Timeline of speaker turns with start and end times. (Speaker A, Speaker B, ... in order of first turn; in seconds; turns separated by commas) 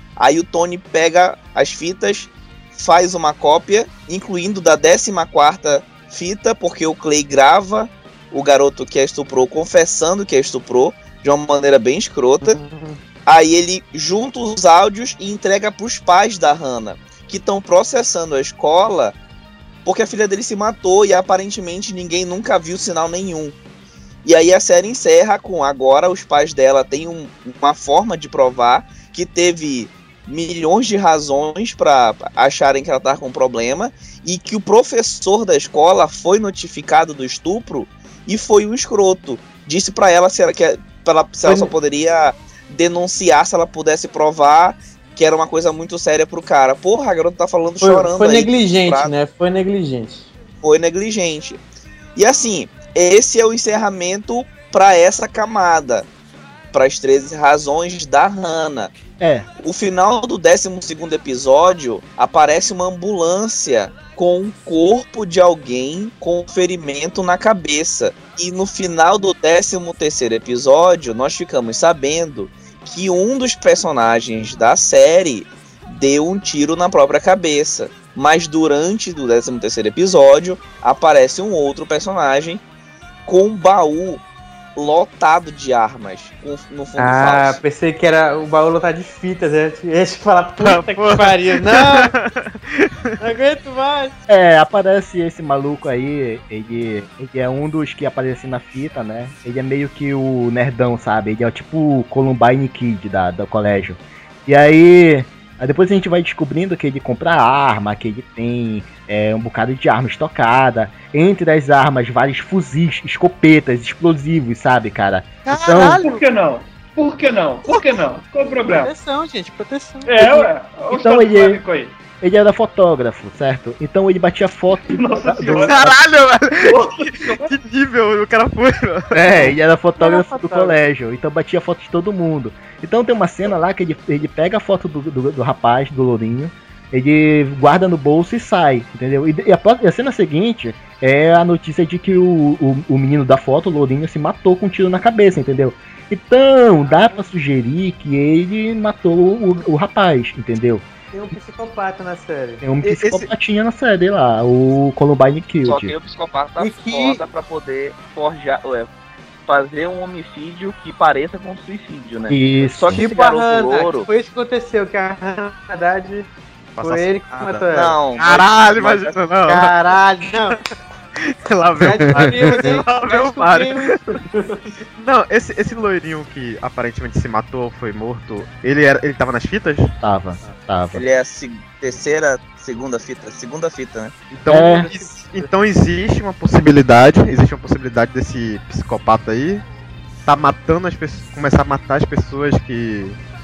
Speaker A: 0.2-12.6, Speaker B: 12.4-13.0, Speaker A: 13.2-19.1, Speaker A: 19.8-23.5, Speaker A: 24.2-49.1, Speaker B: 41.4-41.7, Speaker B: 47.8-50.3, Speaker A: 50.6-51.6, Speaker A: 52.1-56.1, Speaker A: 56.7-58.9, Speaker C: 59.2-59.5, Speaker A: 59.6-82.6, Speaker A: 83.2-84.2, Speaker A: 84.8-87.6, Speaker B: 87.0-92.1, Speaker D: 90.6-92.9, Speaker B: 93.2-94.1, Speaker C: 94.3-116.0, Speaker B: 115.5-116.2, Speaker E: 115.7-118.9, Speaker B: 117.7-120.5, Speaker E: 120.0-121.9, Speaker C: 120.9-121.6, Speaker C: 122.2-125.9, Speaker E: 124.9-125.8, Speaker D: 125.5-129.2, Speaker E: 126.6-127.5, Speaker C: 129.1-150.8, Speaker B: 130.0-130.8, Speaker B: 151.1-152.6, Speaker C: 152.6-155.9, Speaker D: 152.8-153.3, Speaker A: 155.6-158.9, Speaker B: 156.6-157.2, Speaker A: 159.5-164.1, Speaker C: 162.3-163.0, Speaker B: 162.9-168.0, Speaker D: 166.8-169.8, Speaker A: 167.7-169.2, Speaker B: 169.4-170.6, Speaker D: 171.3-174.0, Speaker B: 171.8-174.0, Speaker C: 172.1-172.7, Speaker D: 175.0-180.5, Speaker C: 180.0-181.0, Speaker A: 180.9-184.1, Speaker D: 184.3-189.6, Speaker B: 184.5-185.5, Speaker C: 184.5-184.9, Speaker D: 190.2-193.2